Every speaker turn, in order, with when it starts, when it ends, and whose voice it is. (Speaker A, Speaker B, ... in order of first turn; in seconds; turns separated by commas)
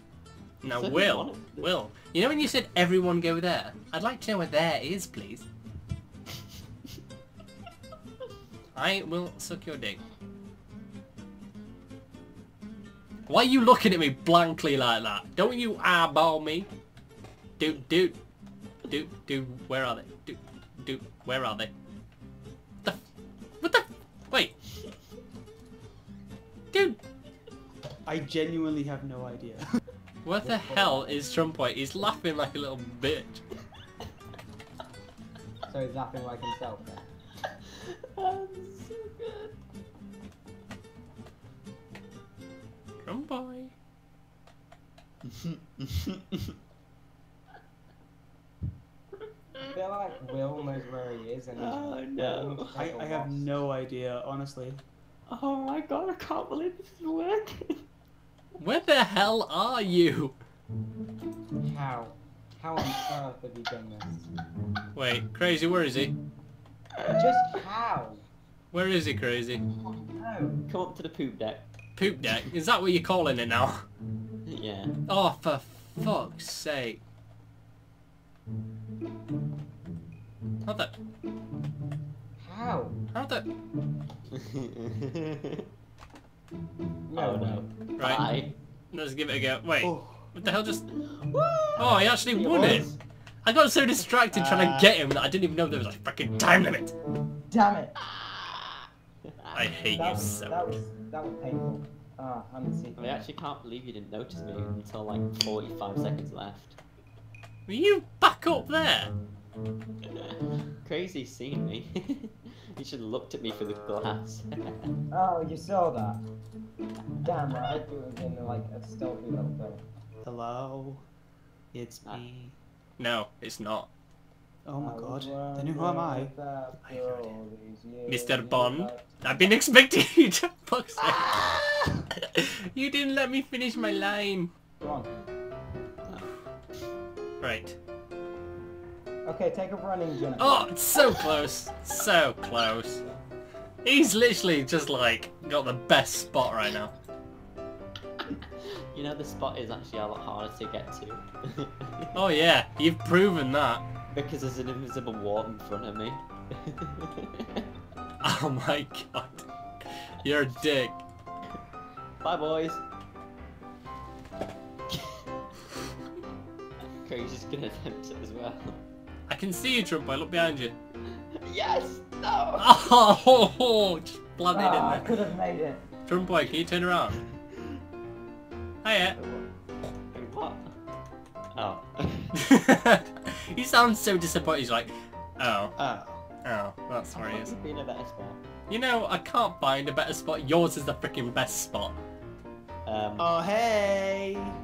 Speaker A: 0.6-5.5, Speaker B: 0.6-1.7, Speaker A: 8.8-10.0, Speaker A: 13.3-16.7, Speaker A: 17.6-18.2, Speaker A: 18.9-21.7, Speaker A: 23.6-24.5, Speaker A: 26.7-27.0, Speaker C: 28.1-29.7, Speaker A: 30.2-33.4, Speaker D: 30.4-31.2, Speaker D: 35.7-37.0, Speaker B: 38.1-39.5, Speaker A: 43.0-43.7, Speaker D: 49.7-53.5, Speaker B: 51.5-52.8, Speaker C: 52.8-54.8, Speaker B: 55.3-57.8, Speaker A: 58.6-60.4, Speaker D: 61.6-64.3, Speaker A: 65.0-66.1, Speaker D: 67.1-68.2, Speaker A: 68.7-69.6, Speaker D: 70.1-70.6, Speaker B: 70.7-71.7, Speaker A: 72.0-73.8, Speaker B: 74.5-74.9, Speaker A: 75.1-77.0, Speaker A: 80.7-80.9, Speaker D: 82.4-83.0, Speaker A: 83.1-83.5, Speaker B: 84.4-85.6, Speaker D: 87.1-87.7, Speaker B: 87.2-88.5, Speaker A: 88.9-90.8, Speaker C: 89.8-90.3, Speaker B: 91.0-92.2, Speaker A: 91.8-92.9, Speaker D: 92.3-93.0, Speaker A: 93.4-96.9, Speaker C: 94.3-95.0, Speaker D: 97.5-97.9, Speaker B: 98.1-98.9, Speaker B: 99.4-99.7, Speaker A: 99.5-100.6, Speaker D: 100.0-103.3, Speaker B: 103.0-106.8, Speaker A: 107.7-109.1, Speaker B: 110.8-114.5, Speaker D: 115.1-116.2, Speaker D: 117.2-119.8, Speaker C: 120.2-121.1, Speaker C: 121.7-122.6, Speaker A: 123.0-123.9, Speaker C: 124.7-126.3, Speaker D: 124.8-129.2, Speaker A: 126.8-127.3, Speaker A: 128.1-131.4, Speaker B: 131.1-131.6, Speaker A: 132.2-134.5, Speaker D: 134.8-135.1, Speaker A: 137.4-137.8, Speaker D: 139.2-140.7, Speaker A: 140.4-143.0, Speaker A: 143.8-146.9, Speaker B: 148.9-152.1, Speaker A: 152.2-153.9, Speaker B: 154.1-157.6, Speaker A: 158.2-159.4, Speaker A: 160.2-161.0, Speaker B: 162.2-162.8, Speaker B: 164.9-165.2, Speaker B: 167.0-168.8, Speaker A: 169.3-170.8, Speaker B: 171.4-172.7, Speaker A: 172.6-175.1, Speaker D: 174.5-175.9, Speaker A: 176.1-177.2, Speaker A: 178.8-179.2, Speaker B: 179.2-179.5, Speaker B: 180.1-180.7, Speaker B: 181.6-182.3, Speaker A: 182.4-185.7, Speaker C: 185.8-186.2, Speaker A: 186.4-187.5, Speaker B: 187.1-188.4, Speaker A: 188.7-192.0, Speaker B: 192.9-193.3, Speaker C: 193.2-194.5